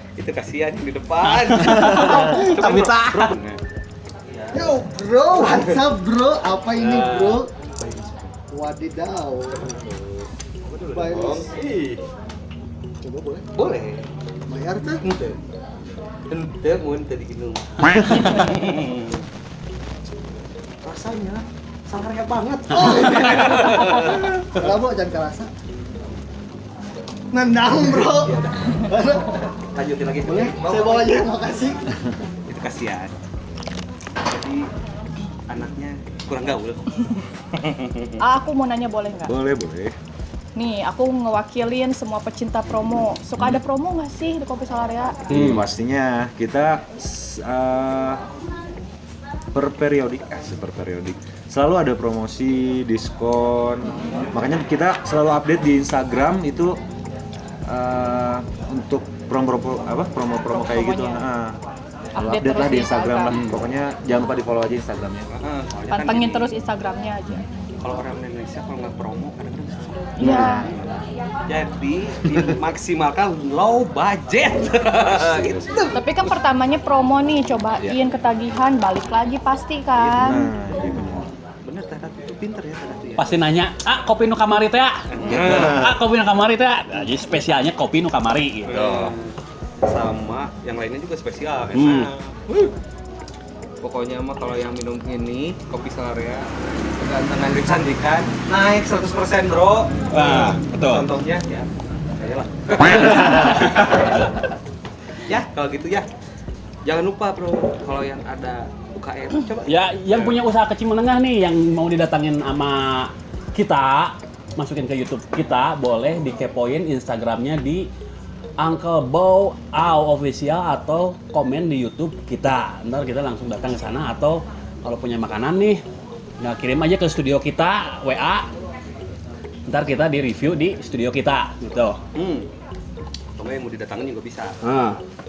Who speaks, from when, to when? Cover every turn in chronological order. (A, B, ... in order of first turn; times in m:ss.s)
0:00.2-0:03.6 A
0:01.4-0:03.4 B
0:04.3-0:04.8 A
0:04.5-0:07.5 C
0:05.3-0:05.8 A
0:06.8-0:08.4 A
0:08.5-0:09.8 C
0:09.6-0:12.0 A
0:10.9-0:11.5 C
0:13.0-0:13.5 C
0:13.5-0:14.1 A
0:14.5-0:15.2 C
0:15.0-0:15.4 A
0:16.3-0:19.2 A
0:20.8-0:24.7 A
0:22.7-0:25.5 C
0:27.3-0:29.5 C
0:27.9-0:28.9 A
0:29.7-0:31.3 A
0:30.2-0:31.9 C
0:32.5-0:33.1 A
0:34.2-0:34.7 A
0:35.5-0:38.2 A
0:38.2-0:39.4 D
0:39.2-0:40.0 E
0:40.6-0:45.3 D
0:45.3-0:45.6 B
0:45.3-0:48.2 E
0:49.5-0:56.8 E
0:53.9-0:54.2 D
0:57.7-1:01.6 E
1:00.5-1:01.2 D
1:02.2-1:03.4 D
1:02.2-1:05.3 E
1:05.3-1:06.6 A
1:05.9-1:07.5 D
1:07.8-1:16.0 A
1:10.2-1:10.7 E
1:10.2-1:10.7 D
1:15.0-1:15.9 E
1:15.9-1:20.5 D
1:20.0-1:21.3 E
1:20.8-1:23.4 A
1:23.2-1:29.2 B
1:25.1-1:25.9 A
1:25.3-1:26.0 E
1:28.7-1:32.7 A
1:31.7-1:32.1 B
1:33.8-1:44.3 A
1:40.1-1:41.1 B
1:42.8-1:44.2 B
1:45.3-1:46.1 A
1:46.8-1:50.4 A
1:49.6-1:57.9 B
1:58.6-2:05.8 B
2:06.4-2:08.5 B
2:09.7-2:12.0 B
2:12.2-2:12.5 A
2:13.4-2:14.6 A
2:14.6-2:15.0 B